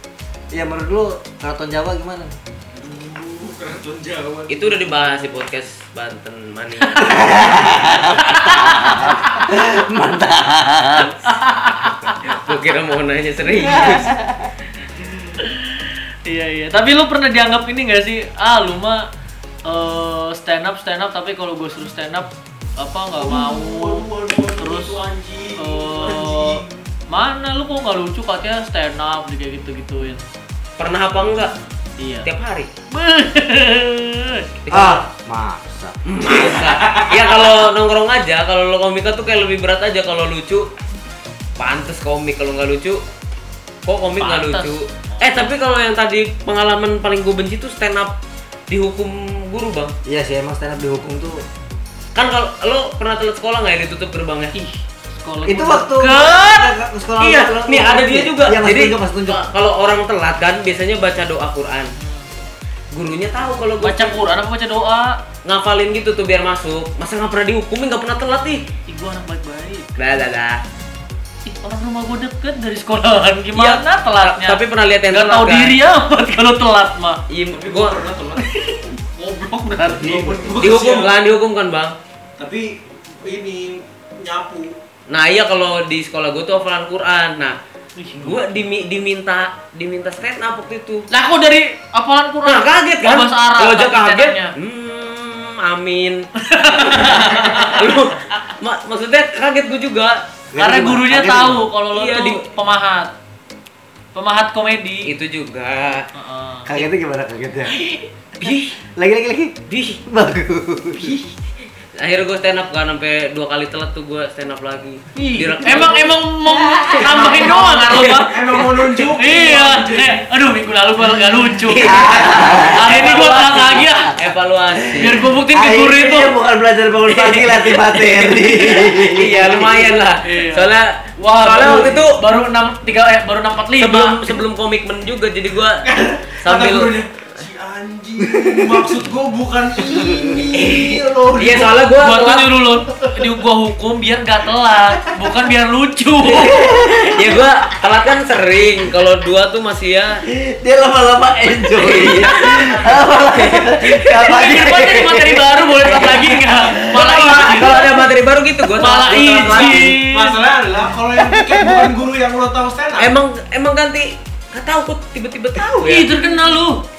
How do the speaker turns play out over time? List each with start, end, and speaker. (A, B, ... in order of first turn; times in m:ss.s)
0:00.5-0:02.4 A
0:02.7-0:04.8 B
0:04.5-0:09.1 C
0:07.0-0:11.2 A
0:07.4-0:08.1 B
0:08.2-0:09.4 D
0:11.2-0:12.4 D
0:12.2-0:14.1 C
0:13.6-0:14.5 A
0:15.4-0:19.1 D
0:19.6-0:24.0 D
0:23.2-0:26.8 B
0:24.6-0:25.0 D
0:25.6-0:30.2 D
0:30.8-0:31.5 C
0:32.0-0:32.3 D
0:32.2-0:32.7 C
0:32.9-0:34.4 D
0:34.6-0:35.0 C
0:34.7-0:36.0 A
0:36.0-0:40.7 C
0:36.3-0:37.4 B
0:41.6-0:43.0 C
0:43.8-0:48.2 C
0:44.2-0:45.5 D
0:48.7-0:49.9 C
0:50.0-0:51.4 A
0:52.1-0:54.5 C
0:54.5-0:56.7 D
0:55.4-0:59.4 A
0:57.2-1:01.9 C
1:02.0-1:02.3 D
1:02.9-1:04.2 C
1:03.8-1:05.2 D
1:05.4-1:08.6 C
1:08.9-1:09.9 D
1:10.0-1:10.6 C
1:11.4-1:17.2 D
1:13.5-1:15.7 C
1:17.3-1:18.0 C
1:17.5-1:18.4 B
1:18.4-1:20.5 D
1:19.9-1:21.1 B
1:20.6-1:22.0 C
1:22.4-1:24.8 B
1:25.1-1:27.6 C
1:28.0-1:28.4 D
1:28.2-1:31.1 C
1:31.1-1:34.5 D
1:32.4-1:40.2 C
1:36.4-1:38.0 D
1:40.5-1:41.6 A
1:40.6-1:43.1 D
1:41.9-1:42.5 C
1:44.1-1:45.1 D
1:45.0-1:46.1 C
1:46.1-1:46.7 D
1:46.6-1:47.8 A
1:47.8-1:48.7 C
1:49.0-1:51.2 A
1:49.7-1:50.0 C
1:52.0-1:56.2 C
1:55.2-2:04.1 D
1:56.7-1:58.3 C
1:56.9-2:00.2 B
2:01.6-2:05.2 C
2:01.9-2:02.8 A
2:04.8-2:09.9 A
2:05.0-2:06.4 D
2:07.1-2:07.4 D
2:07.4-2:12.2 C
2:10.2-2:14.3 D
2:13.8-2:15.8 C
2:15.8-2:21.8 B
2:16.4-2:17.0 C
2:18.2-2:18.9 A
2:20.1-2:21.6 A
2:21.3-2:22.7 C
2:21.8-2:26.8 D
2:26.3-2:27.5 A
2:26.4-2:30.2 C
2:30.3-2:37.5 A
2:31.8-2:34.4 C
2:34.2-2:37.9 D
2:35.9-2:39.8 C
2:38.8-2:40.4 D
2:39.0-2:43.1 B
2:43.0-2:46.1 C
2:45.8-2:46.8 D